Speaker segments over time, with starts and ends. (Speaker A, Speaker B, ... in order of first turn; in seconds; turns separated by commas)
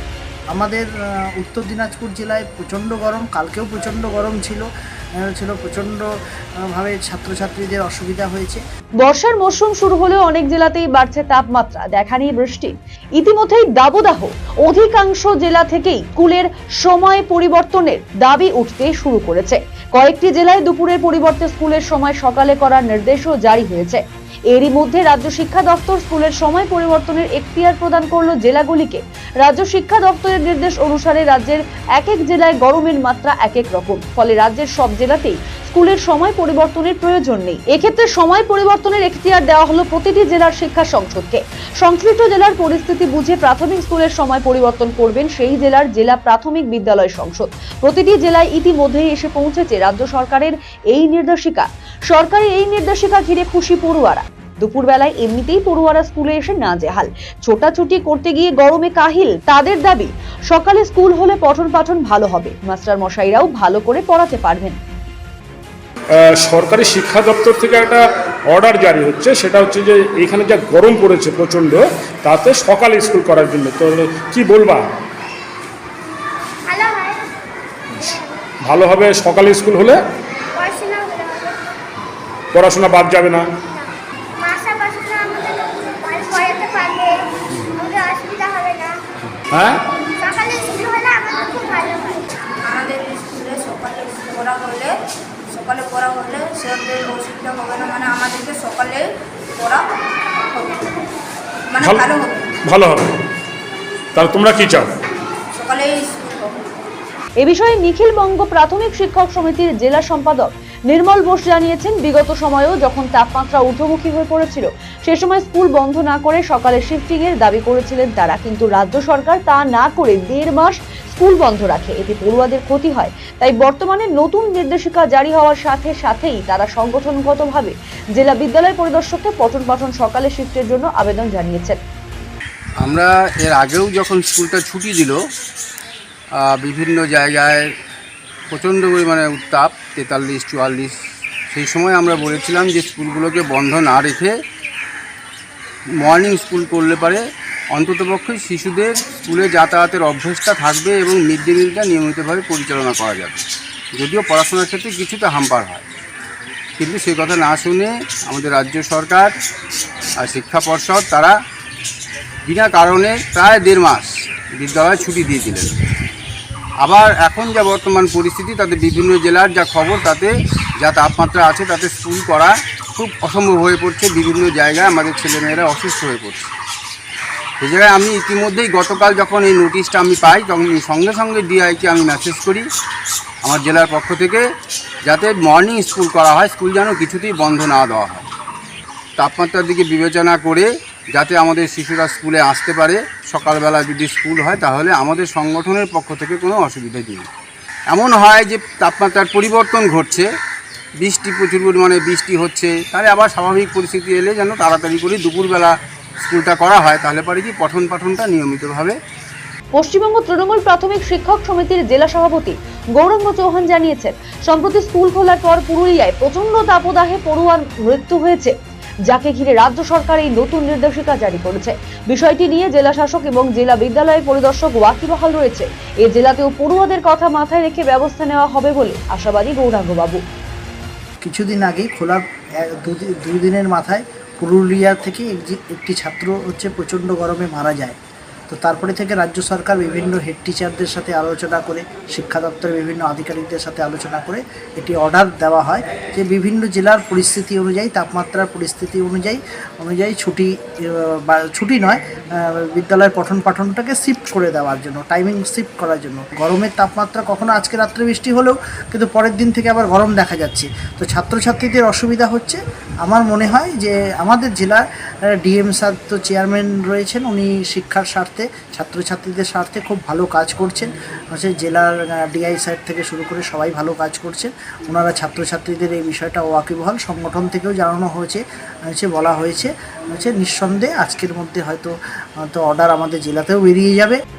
Speaker A: 0.5-4.7, Speaker A: 5.2-6.1, Speaker A: 6.6-8.6, Speaker B: 9.0-64.8, Speaker C: 66.2-74.8, Speaker D: 76.7-77.2, Speaker D: 78.0-78.3, Speaker C: 78.6-80.0, Speaker D: 80.5-81.6, Speaker C: 82.5-83.5, Speaker D: 84.4-89.0, Speaker C: 89.5-89.8, Speaker D: 90.1-92.3, Speaker E: 92.6-95.0, Speaker E: 95.5-101.0, Speaker E: 101.7-102.5, Speaker C: 101.8-102.0, Speaker C: 102.6-103.1, Speaker C: 104.1-104.9, Speaker E: 105.5-106.8, Speaker B: 107.4-131.8, Speaker F: 132.8-135.1, Speaker F: 136.5-137.7, Speaker F: 138.5-140.9, Speaker F: 141.5-144.3, Speaker F: 146.0-147.2, Speaker F: 147.7-155.9, Speaker F: 156.8-159.3, Speaker F: 160.2-161.3, Speaker F: 162.4-165.8, Speaker F: 166.8-176.5, Speaker F: 177.6-182.7, Speaker F: 183.4-184.4, Speaker F: 185.1-188.3, Speaker F: 189.2-197.3, Speaker F: 197.9-200.2, Speaker F: 201.0-205.7, Speaker F: 206.2-209.0, Speaker B: 209.8-218.5, Speaker B: 219.1-230.2, Speaker A: 231.2-237.9, Speaker A: 238.5-264.8, Speaker A: 265.4-281.9, Speaker A: 282.5-284.2